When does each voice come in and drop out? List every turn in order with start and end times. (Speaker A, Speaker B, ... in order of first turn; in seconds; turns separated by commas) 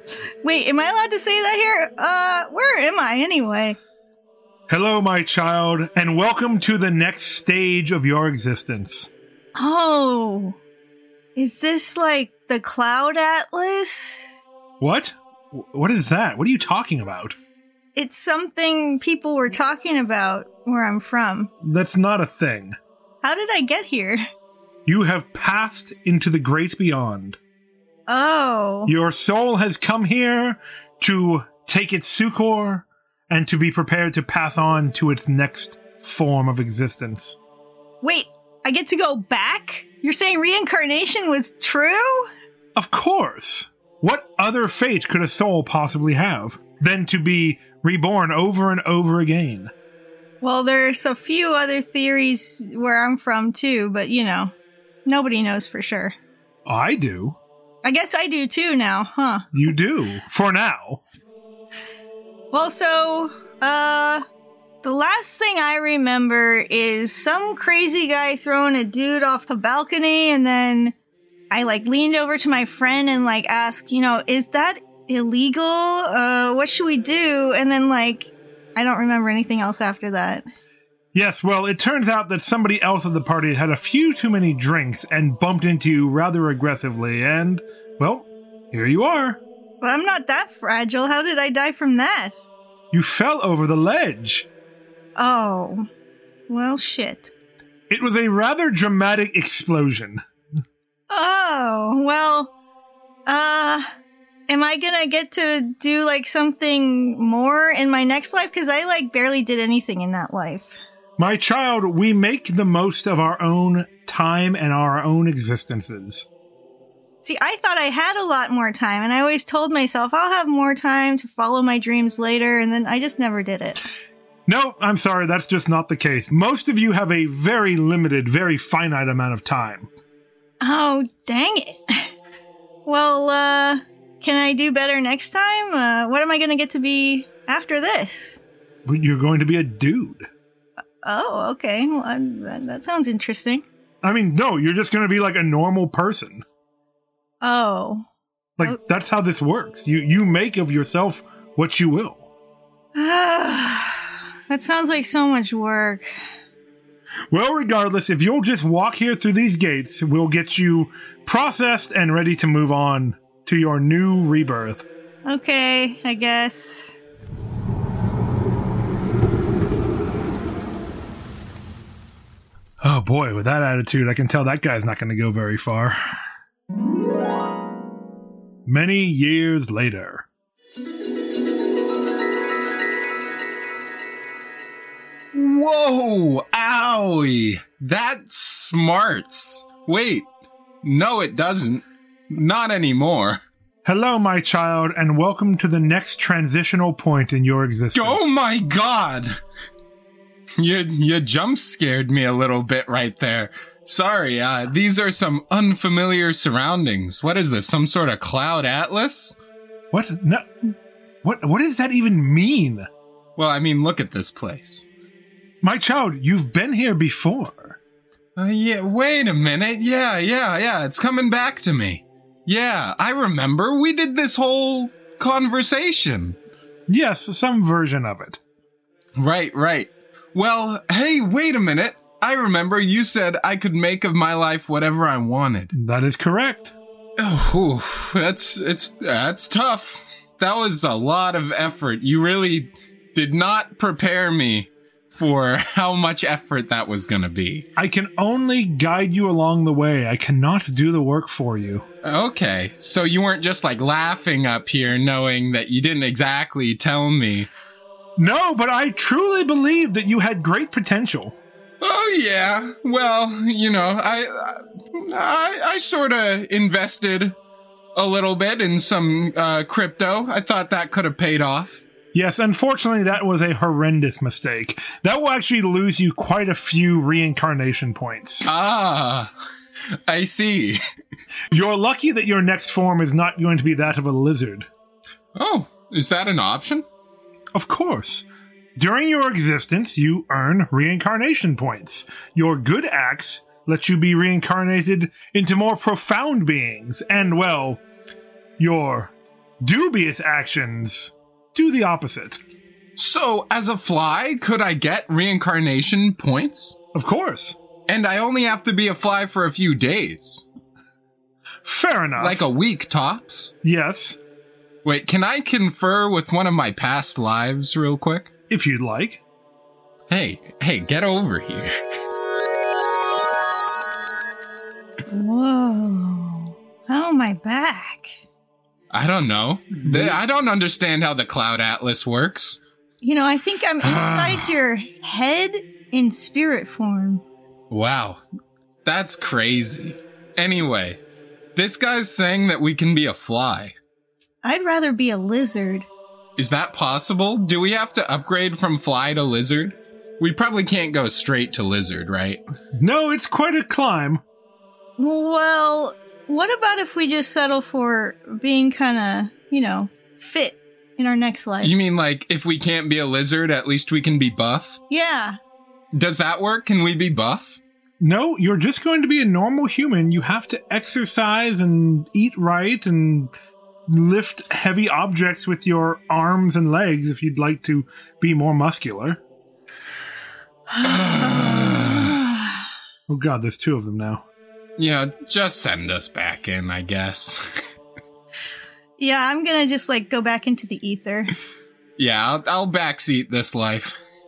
Speaker A: 0.4-3.8, Speaker B: 4.7-9.1, Speaker A: 9.6-10.6, Speaker A: 11.4-14.3, Speaker B: 14.8-17.4, Speaker A: 17.9-21.5, Speaker B: 21.6-22.8, Speaker A: 23.2-24.2, Speaker B: 24.9-27.4, Speaker A: 28.1-28.9, Speaker B: 28.9-37.4, Speaker A: 38.0-42.3, Speaker B: 42.8-49.7, Speaker A: 50.4-54.5, Speaker A: 55.1-56.1, Speaker B: 56.7-57.4, Speaker A: 57.8-59.5, Speaker B: 59.5-61.0, Speaker A: 62.5-64.2, Speaker A: 64.8-71.0, Speaker A: 71.5-80.4, Speaker B: 81.1-89.4, Speaker A: 89.8-92.4, Speaker B: 92.9-94.5, Speaker A: 95.2-95.9, Speaker A: 96.5-97.3, Speaker B: 97.9-100.2, Speaker A: 101.1-102.5, Speaker A: 103.3-103.9, Speaker A: 104.5-110.8, Speaker B: 111.2-116.3, Speaker A: 117.2-123.8, Speaker B: 124.5-129.9, Speaker A: 130.6-132.1, Speaker A: 132.9-138.4, Speaker B: 138.8-140.3, Speaker A: 141.0-143.7, Speaker B: 144.0-146.4, Speaker A: 147.4-148.1, Speaker B: 148.6-152.3, Speaker A: 152.9-156.1, Speaker B: 157.3-164.8, Speaker A: 165.2-167.0, Speaker B: 172.8-176.0, Speaker B: 178.7-180.3, Speaker C: 185.3-190.3, Speaker C: 190.8-193.4, Speaker B: 193.8-198.4, Speaker C: 197.9-199.4, Speaker C: 200.6-209.4, Speaker B: 209.9-212.9, Speaker C: 213.4-214.8, Speaker B: 215.6-217.8, Speaker C: 218.4-226.4, Speaker B: 226.9-228.4, Speaker C: 229.2-235.7, Speaker B: 235.7-236.7, Speaker C: 237.2-247.7, Speaker B: 247.8-251.9, Speaker C: 252.0-257.5, Speaker B: 258.2-261.4, Speaker C: 261.8-267.4, Speaker C: 267.9-271.9, Speaker B: 272.1-278.5, Speaker C: 278.4-279.3, Speaker C: 280.1-280.8, Speaker B: 281.5-284.7, Speaker C: 285.4-286.9, Speaker B: 287.5-297.8, Speaker B: 298.6-302.4, Speaker C: 303.0-306.8, Speaker B: 306.9-307.6, Speaker C: 307.9-310.4, Speaker B: 311.6-312.4, Speaker C: 312.2-313.5, Speaker B: 313.6-314.2, Speaker C: 314.8-318.3, Speaker B: 318.5-319.2, Speaker C: 320.1-321.7, Speaker A: 325.1-328.2, Speaker C: 328.9-332.6, Speaker B: 329.9-330.2, Speaker A: 333.0-337.2, Speaker C: 333.8-334.5, Speaker C: 337.7-338.2, Speaker C: 338.9-341.0, Speaker C: 341.6-343.8, Speaker A: 344.4-345.9, Speaker C: 346.4-352.4, Speaker B: 352.8-354.2, Speaker A: 355.0-361.7, Speaker C: 361.6-364.8, Speaker A: 364.9-365.4, Speaker C: 365.9-367.6, Speaker B: 368.0-373.3, Speaker B: 373.9-379.2, Speaker A: 380.8-382.2, Speaker C: 380.8-382.2, Speaker B: 383.1-384.2, Speaker C: 384.8-387.4, Speaker A: 389.0-391.3, Speaker C: 392.0-393.9